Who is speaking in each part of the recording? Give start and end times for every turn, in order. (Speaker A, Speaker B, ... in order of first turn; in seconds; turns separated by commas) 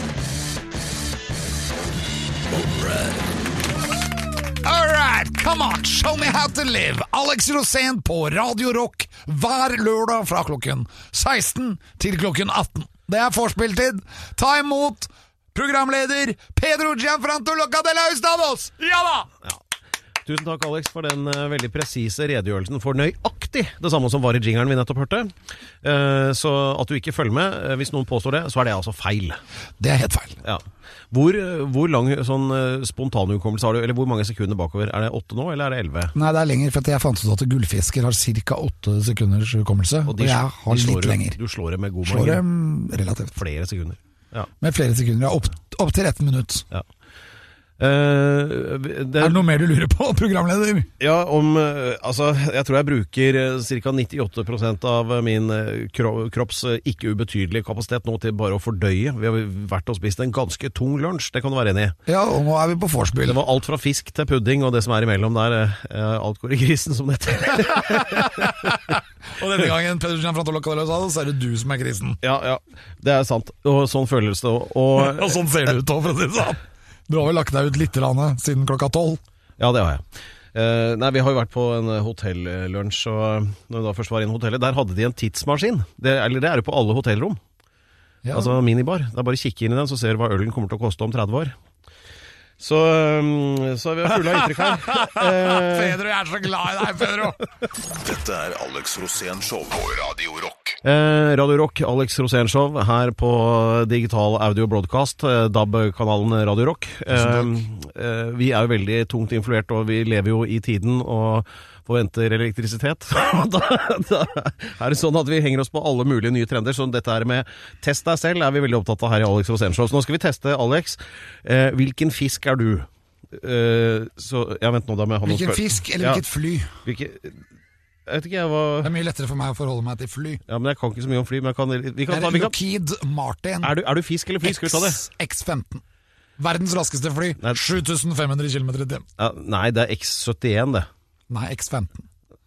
Speaker A: 2.5-2.9, Speaker A: 4.6-19.3, Speaker B: 20.2-29.4, Speaker A: 29.8-30.4, Speaker B: 30.4-36.1, Speaker A: 36.1-41.4, Speaker B: 40.1-42.4, Speaker A: 42.0-43.4, Speaker B: 43.4-44.5, Speaker A: 44.6-46.7, Speaker B: 47.8-49.4, Speaker A: 49.2-50.9, Speaker B: 51.0-62.0, Speaker A: 62.1-63.4, Speaker B: 63.3-68.5, Speaker A: 67.9-68.8, Speaker A: 69.4-72.2, Speaker B: 72.2-75.4, Speaker A: 75.0-79.2, Speaker B: 79.6-87.4, Speaker A: 88.2-88.6, Speaker B: 88.3-91.6, Speaker B: 92.6-96.0, Speaker A: 94.3-97.4, Speaker C: 97.9-100.8, Speaker B: 100.8-126.2, Speaker A: 107.1-107.5, Speaker A: 125.2-126.8, Speaker B: 126.8-127.4, Speaker B: 128.1-128.9, Speaker A: 128.8-130.4, Speaker B: 130.5-132.5, Speaker A: 132.1-133.8, Speaker B: 133.6-135.0, Speaker A: 134.4-135.8, Speaker A: 136.4-139.1, Speaker B: 139.2-140.9, Speaker A: 141.3-142.1